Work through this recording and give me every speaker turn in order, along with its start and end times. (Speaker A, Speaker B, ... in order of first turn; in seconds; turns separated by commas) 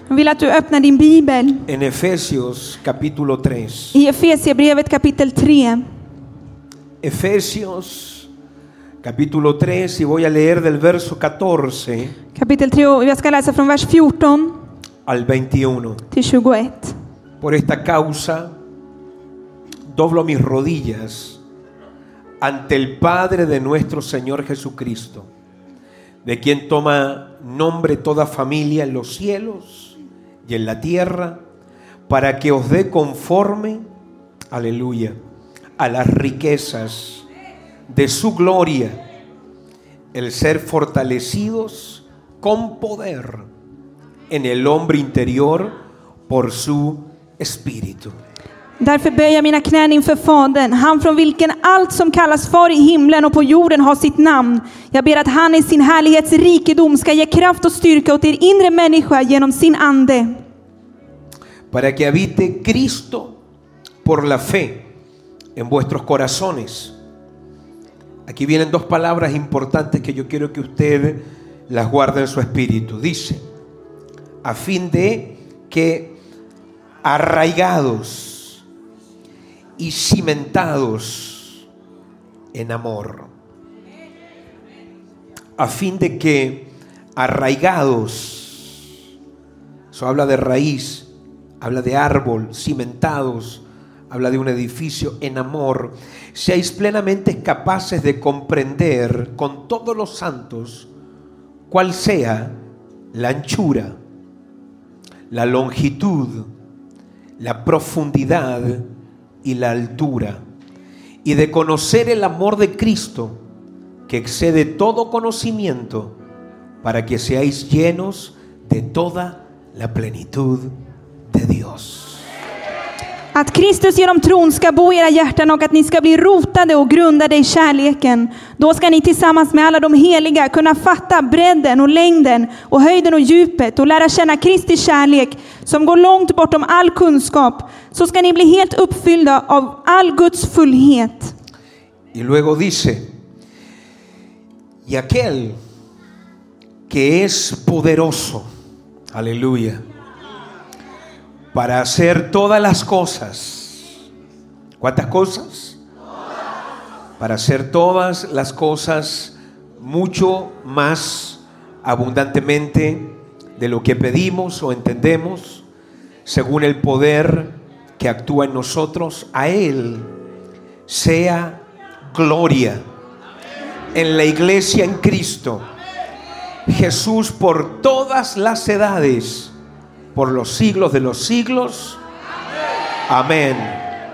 Speaker A: 0.1-1.6, Speaker B: 1.7-4.0, Speaker A: 3.9-5.8, Speaker B: 7.0-8.3, Speaker B: 9.0-12.1, Speaker A: 12.3-14.6, Speaker B: 15.1-16.0, Speaker A: 16.1-16.9, Speaker B: 17.4-18.5, Speaker B: 19.9-21.4, Speaker B: 22.4-25.3, Speaker B: 26.2-29.9, Speaker B: 30.4-31.4, Speaker B: 32.1-33.8, Speaker B: 34.5-35.2, Speaker B: 35.8-37.2, Speaker B: 37.9-39.0, Speaker B: 40.1-43.5, Speaker B: 44.3-45.7, Speaker B: 46.3-48.2, Speaker A: 48.8-60.3, Speaker B: 61.7-63.4, Speaker B: 64.0-64.9, Speaker B: 65.6-66.9, Speaker B: 68.3-73.4, Speaker B: 74.4-76.1, Speaker B: 77.0-78.6, Speaker B: 79.8-81.6, Speaker B: 82.5-83.3, Speaker B: 85.6-88.8, Speaker B: 89.9-91.1, Speaker B: 91.6-100.9, Speaker B: 101.7-102.5, Speaker B: 103.1-104.0, Speaker B: 105.3-106.5, Speaker B: 107.4-108.8, Speaker B: 109.4-110.4, Speaker B: 111.2-113.4, Speaker B: 114.1-116.1, Speaker B: 116.8-120.7, Speaker B: 121.3-122.2, Speaker A: 123.3-141.3, Speaker B: 142.1-143.1, Speaker B: 144.8-145.6, Speaker B: 146.9-148.5, Speaker B: 149.1-149.8, Speaker B: 151.5-153.8, Speaker B: 154.8-155.8, Speaker B: 157.2-165.6, Speaker B: 166.2-170.1, Speaker B: 170.9-171.6, Speaker B: 172.1-172.8, Speaker B: 173.9-175.7, Speaker B: 176.7-179.5, Speaker B: 180.2-182.0, Speaker B: 183.1-183.8